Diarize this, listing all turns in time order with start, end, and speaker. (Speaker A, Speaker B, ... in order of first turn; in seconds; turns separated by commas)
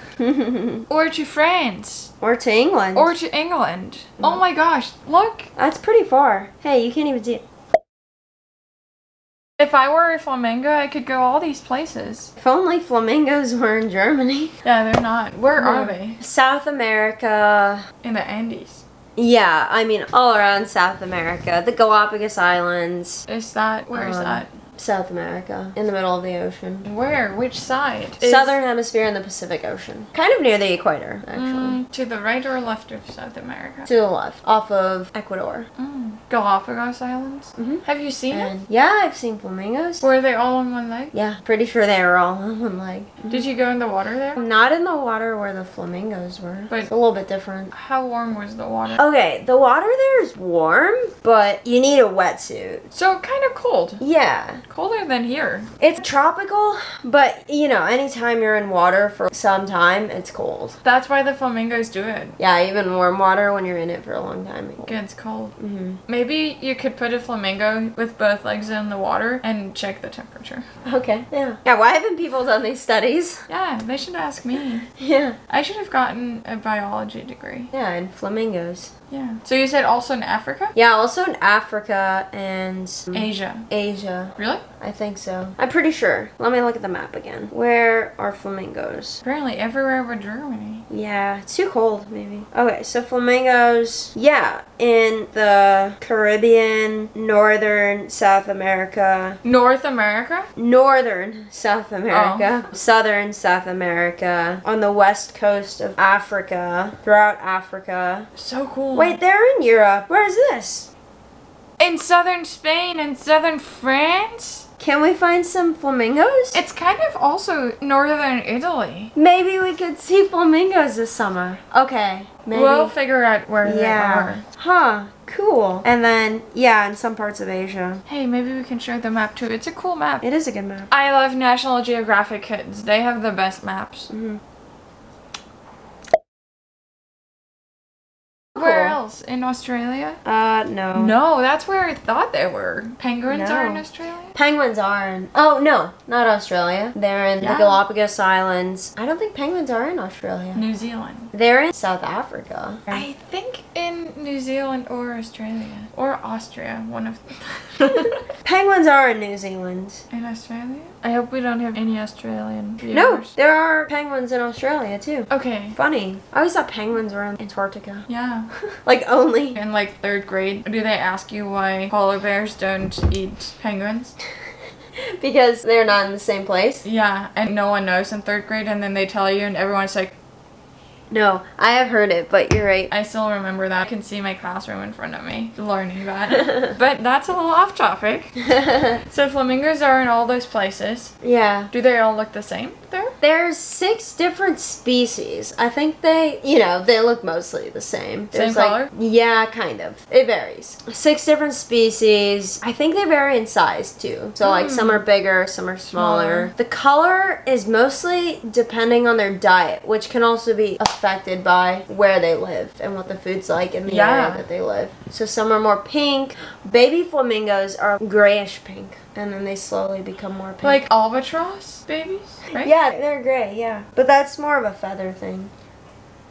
Speaker A: 0.2-0.9, Speaker B: 0.9-2.1, Speaker A: 2.2-3.1, Speaker B: 3.0-5.5, Speaker A: 5.6-7.4, Speaker B: 9.6-12.3, Speaker A: 12.4-14.5, Speaker B: 14.6-16.2, Speaker A: 15.6-17.8, Speaker B: 18.0-18.8, Speaker A: 19.2-23.2, Speaker B: 23.3-24.5, Speaker A: 23.9-26.9, Speaker B: 26.9-28.6, Speaker A: 28.2-31.8, Speaker B: 31.3-33.9, Speaker A: 33.9-35.7, Speaker B: 35.8-38.5, Speaker A: 37.6-40.1, Speaker B: 40.0-41.1, Speaker A: 41.1-43.4, Speaker B: 43.3-44.4, Speaker A: 44.4-47.7, Speaker B: 47.7-49.0, Speaker A: 49.0-52.9, Speaker B: 52.9-54.0, Speaker A: 54.0-54.6, Speaker B: 54.7-55.7, Speaker A: 55.8-60.8, Speaker B: 60.8-62.4, Speaker A: 62.4-65.0, Speaker B: 64.8-65.6, Speaker A: 65.6-66.0, Speaker B: 66.1-70.7, Speaker A: 70.8-73.4, Speaker B: 73.5-74.9, Speaker A: 75.0-75.4, Speaker B: 75.5-77.7, Speaker A: 77.7-78.9, Speaker B: 79.1-80.7, Speaker A: 80.8-89.2, Speaker B: 83.1-83.7, Speaker B: 84.4-84.7, Speaker B: 89.2-90.9, Speaker A: 90.9-99.4, Speaker B: 99.4-100.5, Speaker A: 100.6-108.3, Speaker B: 102.1-102.6, Speaker B: 108.3-109.2, Speaker A: 108.9-110.9, Speaker B: 111.8-114.7, Speaker A: 114.8-116.6, Speaker B: 116.5-119.1, Speaker A: 119.2-122.9, Speaker B: 122.5-124.5, Speaker A: 123.6-128.0, Speaker B: 128.1-130.2, Speaker A: 130.2-130.9, Speaker B: 130.9-134.1, Speaker A: 134.1-134.4, Speaker B: 138.6-140.2, Speaker A: 138.6-139.0, Speaker A: 140.2-141.2, Speaker B: 140.9-144.3, Speaker A: 143.3-143.8, Speaker A: 144.3-150.6, Speaker B: 147.4-147.8, Speaker B: 150.6-151.3, Speaker A: 151.3-153.0, Speaker B: 152.9-158.2, Speaker A: 158.4-160.0, Speaker B: 160.1-163.3, Speaker A: 162.9-168.1, Speaker B: 165.3-165.8, Speaker B: 168.1-168.5, Speaker A: 168.9-169.6, Speaker B: 169.6-174.2, Speaker A: 175.0-176.8, Speaker B: 176.8-180.2, Speaker A: 181.1-182.9, Speaker B: 182.9-188.4, Speaker A: 188.4-189.0, Speaker B: 189.1-191.2, Speaker A: 191.2-191.7, Speaker B: 191.7-193.1, Speaker A: 193.2-220.8, Speaker B: 198.3-198.9, Speaker B: 204.4-205.0, Speaker B: 205.9-206.5, Speaker B: 213.9-214.4, Speaker B: 220.6-222.7, Speaker A: 222.6-225.5